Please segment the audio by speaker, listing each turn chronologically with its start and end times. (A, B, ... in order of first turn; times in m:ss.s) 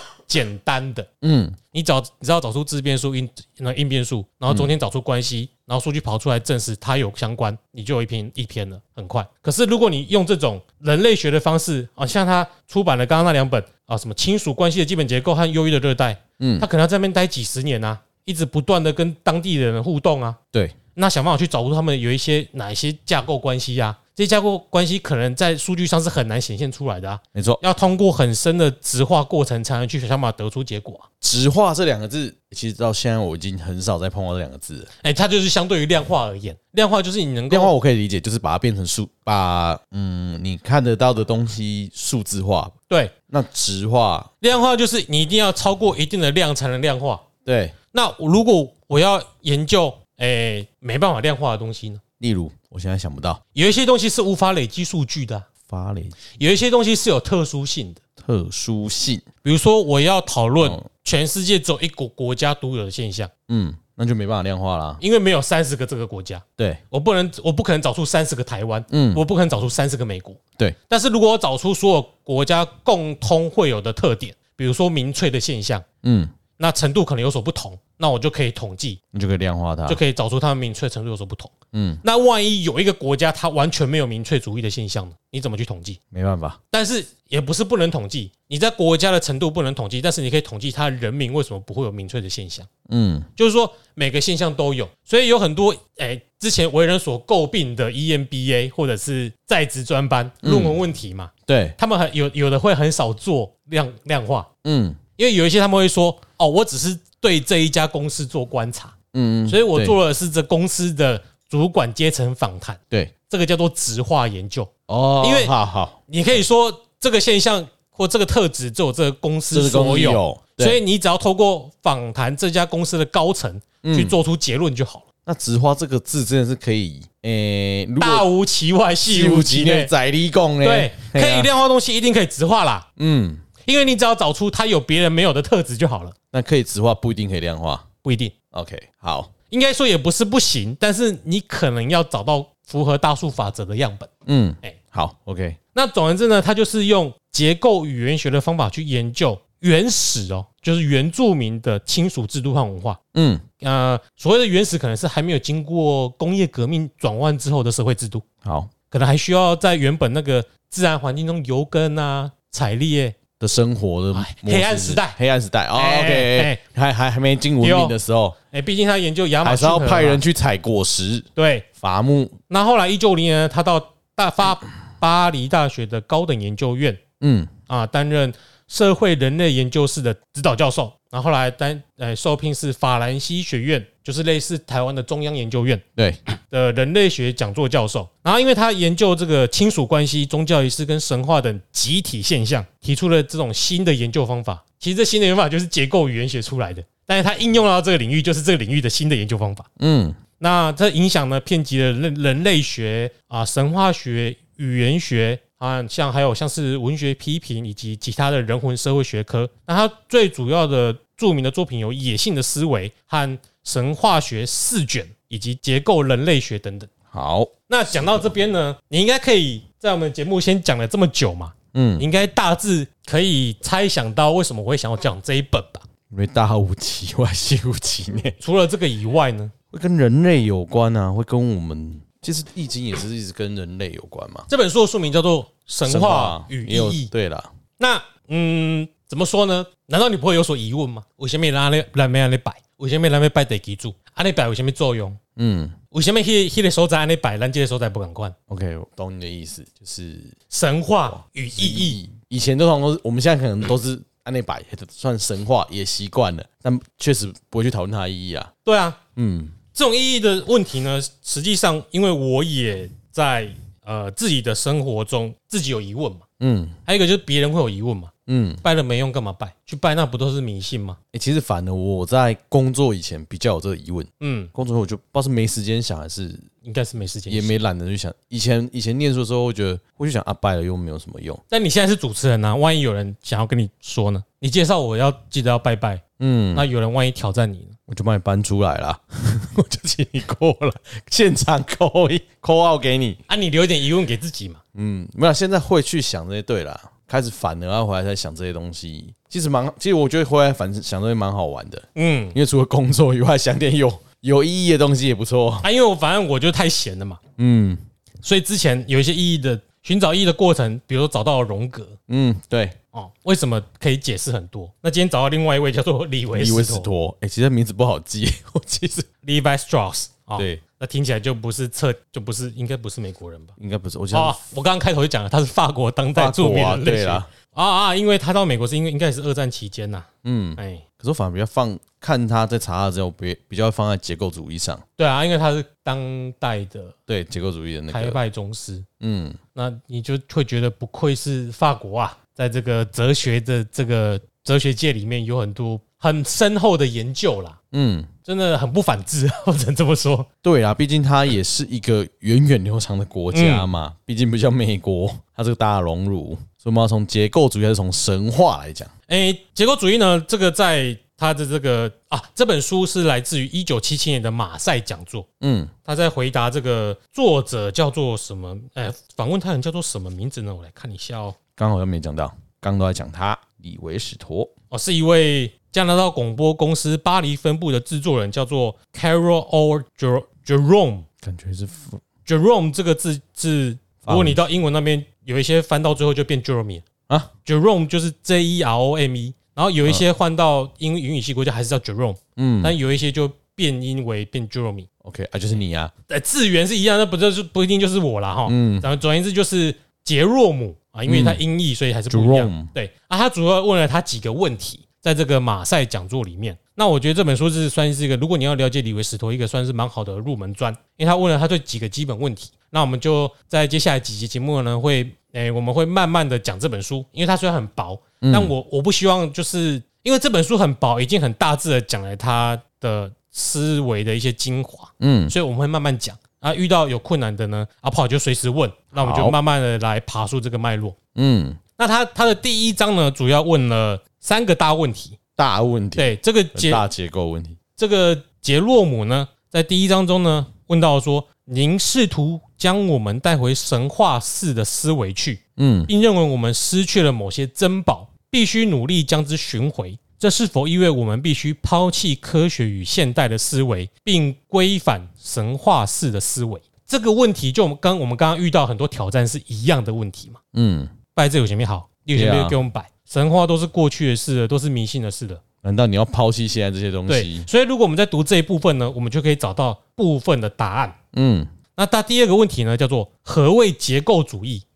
0:00.3-0:01.1 A
0:01.2-0:01.6 B
0:01.7-0:20.4 A
0:16.4-0:16.7 B
0:20.9-0:31.1 A
0:27.3-0:27.6 B
0:31.2-0:34.9 B
0:35.0-0:37.7 A
0:37.5-0:42.7 B
0:43.3-0:44.3 B
0:44.4-0:47.2 A
0:47.4-0:47.7 B
0:47.9-0:52.0 A
0:52.2-0:53.4 B
0:53.5-0:55.5 A
0:55.7-0:56.1 B
0:56.4-0:58.0 A
0:58.2-0:59.2 B
0:59.4-1:03.3 A
1:03.5-1:05.0 B
1:05.0-1:15.8 A
1:08.9-1:09.2 B
1:16.0-1:16.3 B
1:16.6-1:19.0 A
1:19.1-1:20.0 B
1:19.9-1:21.5 A
1:21.7-1:22.0 B
1:22.0-1:26.0 A
1:26.1-1:26.6 B
1:26.7-1:32.7 A
1:32.9-1:33.3 B
1:33.4-1:44.5 A
1:40.4-1:40.8 B
1:41.5-1:41.8 B
1:44.6-1:45.0 B
1:45.2-1:48.9 A
1:49.1-1:50.0 B
1:49.5-1:55.5 A
1:54.9-1:56.4 B
1:56.1-2:05.0 A
1:59.5-2:00.8 B
2:03.8-2:04.2 B
2:05.2-2:08.2 B
2:08.0-2:09.9 A
2:09.0-2:11.5 B
2:10.6-2:12.9 A
2:13.0-2:13.4 B
2:13.6-2:16.1 A
2:16.3-2:17.8 B
2:18.0-2:18.3 A
2:18.5-2:19.3 B
2:19.5-2:24.1 A
2:24.2-2:25.6 B
2:25.7-2:33.0 A
2:33.1-2:33.4 B
2:33.6-2:38.2 A
2:38.4-2:38.7 B
2:38.9-2:43.2 A
2:43.4-2:48.4 B
2:44.1-2:45.2 A
2:45.7-2:46.6 A
2:47.6-2:47.9 A
2:48.5-2:50.2 A
2:49.4-2:52.4 B
2:51.4-2:51.6 A
2:52.5-2:57.0 A
2:57.2-2:57.5 B
2:57.7-3:05.8 A
3:06.4-3:19.7 A
3:19.8-3:20.2 B
3:20.4-3:36.9 A
3:37.1-3:38.3 B
3:37.7-3:45.8 A
3:41.7-3:42.0 B
3:46.1-3:48.4 B
3:48.4-3:49.5 A
3:49.7-3:54.5 B
3:54.5-3:57.1 A
3:55.8-3:57.5 B
3:57.8-4:05.2 A
4:05.4-4:05.7 B
4:05.9-4:08.3 A
4:08.5-4:10.4 B
4:10.5-4:12.0 A
4:11.1-4:18.5 B
4:18.6-4:19.0 A
4:19.2-4:19.6 B
4:19.7-4:26.2 A
4:26.4-4:26.8 B
4:26.8-4:28.1 A
4:28.3-4:28.6 B
4:28.6-4:31.0 A
4:31.1-4:36.5 B
4:34.2-4:34.5 A
4:36.6-4:37.5 A
4:37.3-4:41.4 B
4:41.5-4:46.0 A
4:46.2-4:46.7 B
4:46.5-4:47.8 A
4:47.9-4:53.2 B
4:53.3-4:54.6 A
4:54.7-5:05.7 B
5:02.0-5:02.4 A
5:05.6-5:07.2 A
5:07.4-5:07.8 B
5:08.2-5:12.0 A
5:12.1-5:12.8 B
5:12.9-5:16.9 A
5:16.3-5:19.1 B
5:19.2-5:23.5 A
5:20.4-5:20.6 B
5:23.6-5:24.4 B
5:24.1-5:30.8 A
5:26.1-5:27.3 B
5:30.2-5:34.8 B
5:35.0-5:36.9 A
5:37.1-5:38.2 B
5:37.9-5:38.8 A
5:39.0-5:39.4 B
5:39.5-5:47.6 A
5:47.7-5:48.1 B
5:48.2-5:50.3 A
5:50.4-5:58.9 B
5:53.3-5:53.7 A
5:59.1-6:05.2 A
6:05.4-6:05.7 B
6:05.8-6:11.4 A
6:11.6-6:14.5 B
6:14.7-6:21.0 A
6:21.2-6:22.0 B
6:22.2-6:26.8 A
6:24.0-6:24.4 B
6:27.4-6:34.9 A
6:32.4-6:32.8 B
6:35.0-6:35.9 B
6:36.1-7:11.0 A
6:38.5-6:38.9 B
6:41.1-6:41.4 B
6:42.1-6:42.7 B
6:58.2-6:58.5 B
7:05.0-7:05.3 B
7:08.9-7:09.4 B
7:11.1-7:11.6 B
7:11.8-7:15.2 A
7:15.4-7:17.6 B
7:16.0-7:16.8 A
7:17.8-7:40.4 A
7:25.6-7:25.9 B
7:40.5-7:40.9 B
7:41.1-7:45.4 A
7:42.1-7:42.6 B
7:45.6-7:47.5 B
7:47.1-7:51.0 A
7:51.1-7:51.5 B
7:51.7-7:54.6 A